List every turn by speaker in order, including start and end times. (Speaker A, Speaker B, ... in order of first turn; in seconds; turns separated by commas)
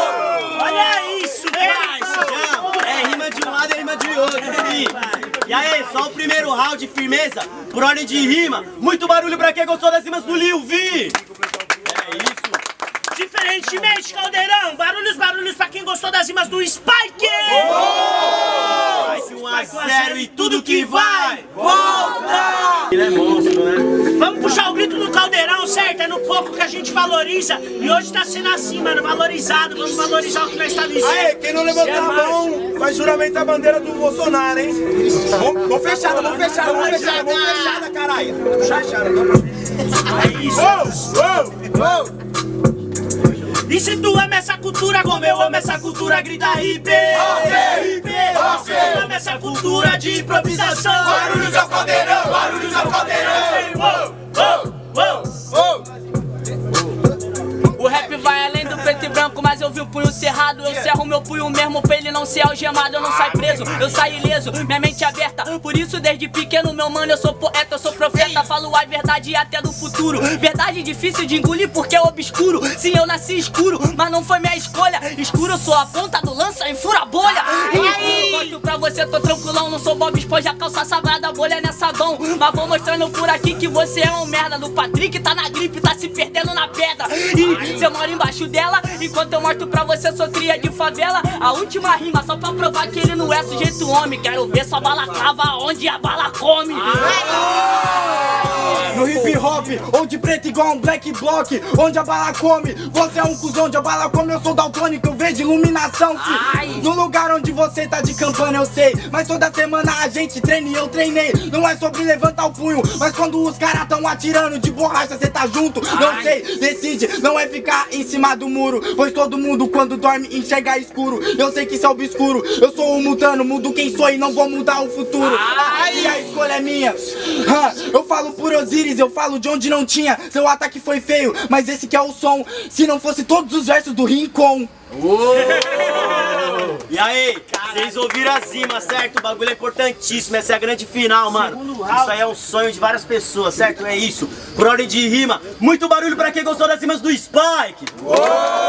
Speaker A: 0.3-2.9, Speaker B: 2.2-11.2, Speaker A: 4.5-5.2, Speaker B: 11.8-12.6, Speaker A: 13.1-22.7, Speaker B: 18.8-21.5, Speaker B: 22.1-24.0, Speaker A: 24.0-32.6, Speaker C: 31.0-37.4, Speaker B: 35.6-39.3, Speaker A: 36.3-37.8, Speaker A: 40.0-41.4, Speaker C: 40.8-41.4, Speaker A: 43.6-55.5, Speaker B: 47.2-52.0, Speaker D: 57.8-97.4, Speaker E: 98.9-134.7, Speaker D: 106.2-106.8, Speaker D: 115.9-116.3, Speaker D: 125.2-126.3, Speaker A: 135.2-136.6, Speaker B: 136.1-148.2, Speaker A: 137.7-138.0, Speaker A: 141.3-142.1